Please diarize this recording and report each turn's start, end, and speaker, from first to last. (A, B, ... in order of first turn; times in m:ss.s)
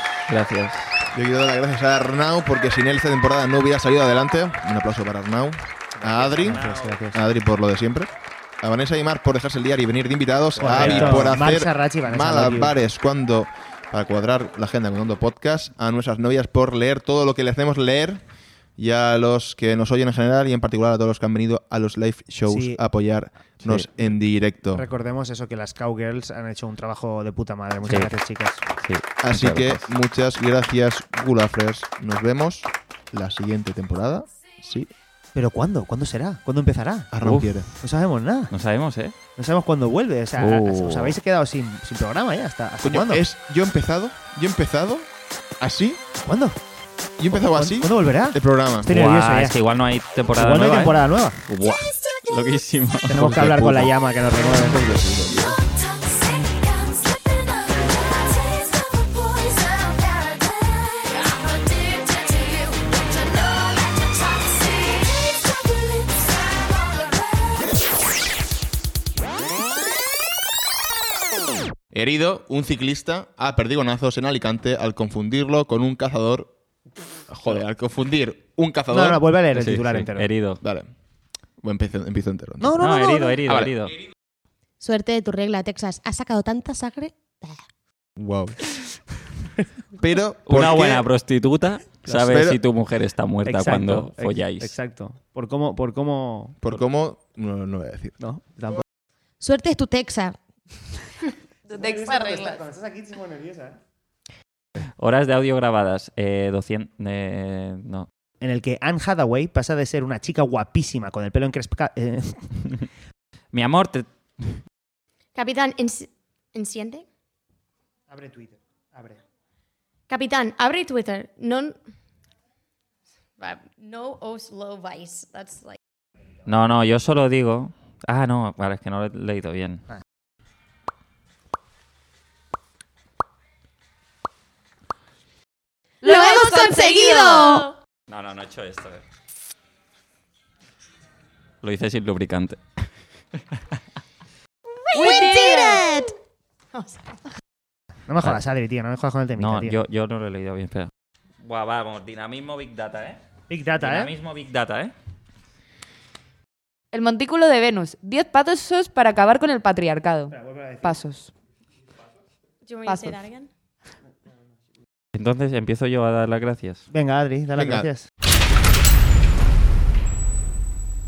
0:00.3-0:01.0 A
0:01.1-0:08.1 B
0:06.0-0:07.2 C
0:06.5-0:06.8 A
0:08.6-0:18.2 B
0:10.6-0:12.7 C
0:10.6-0:11.4 A
0:18.8-0:24.9 B
0:22.5-0:22.8 C
0:23.6-0:28.6 C
0:27.9-0:28.1 A
0:28.7-0:29.8 A
0:29.2-0:34.9 B
0:35.3-0:37.1 C
0:37.1-0:37.7 B
0:37.2-0:37.6 A
0:37.8-0:38.5 C
0:38.5-0:39.1 A
0:39.4-0:43.2 C
0:40.4-0:41.1 A
0:42.8-0:45.1 B
0:45.6-0:46.0 B
0:46.2-0:46.6 C
0:47.2-0:48.9 B
0:47.3-0:49.6 C
0:48.9-0:53.1 A
0:50.4-0:51.4 C
0:53.1-0:54.9 C
0:53.1-0:55.6 B
1:11.9-1:16.5 B
1:17.3-1:19.2 B
1:18.9-1:20.3 C
1:19.5-1:20.6 A
1:20.6-1:20.9 B
1:21.6-1:22.8 B
1:22.6-1:23.4 C
1:22.8-1:24.0 A
1:23.4-1:23.7 B
1:24.8-1:27.6 D
1:28.2-1:28.6 B
1:30.0-1:31.1 B
1:30.5-1:34.7 A
1:32.3-1:32.6 B
1:33.4-1:36.6 C
1:36.6-1:38.1 B
1:38.2-1:38.8 C
1:39.4-1:40.4 D
1:41.7-1:43.8 C
1:41.7-1:42.1 E
1:45.0-1:48.1 A
1:48.4-1:52.5 C
1:53.5-1:54.6 A
1:55.3-1:57.0 F
1:58.1-1:59.2 C
2:00.1-2:01.8 F
2:03.4-2:05.8 F
2:06.4-2:09.8 A
2:16.0-2:17.7 E
2:16.0-2:17.7 F
2:16.2-2:17.6 D
2:18.1-2:19.0 A
2:21.6-2:22.6 A
2:24.9-2:25.9 F
2:24.9-2:26.1 D
2:25.0-2:25.8 E
2:26.7-2:27.3 F
2:28.1-2:29.8 C
2:29.4-2:30.9 A
2:31.4-2:33.2 A
2:33.5-2:34.1 C
2:33.8-2:34.9 A
2:36.9-2:41.3 E
2:40.3-2:41.0 C
2:42.6-2:43.5 F
2:42.9-2:43.2 E
2:45.1-2:46.9 A
2:46.9-2:48.1 C
2:47.6-2:47.9 B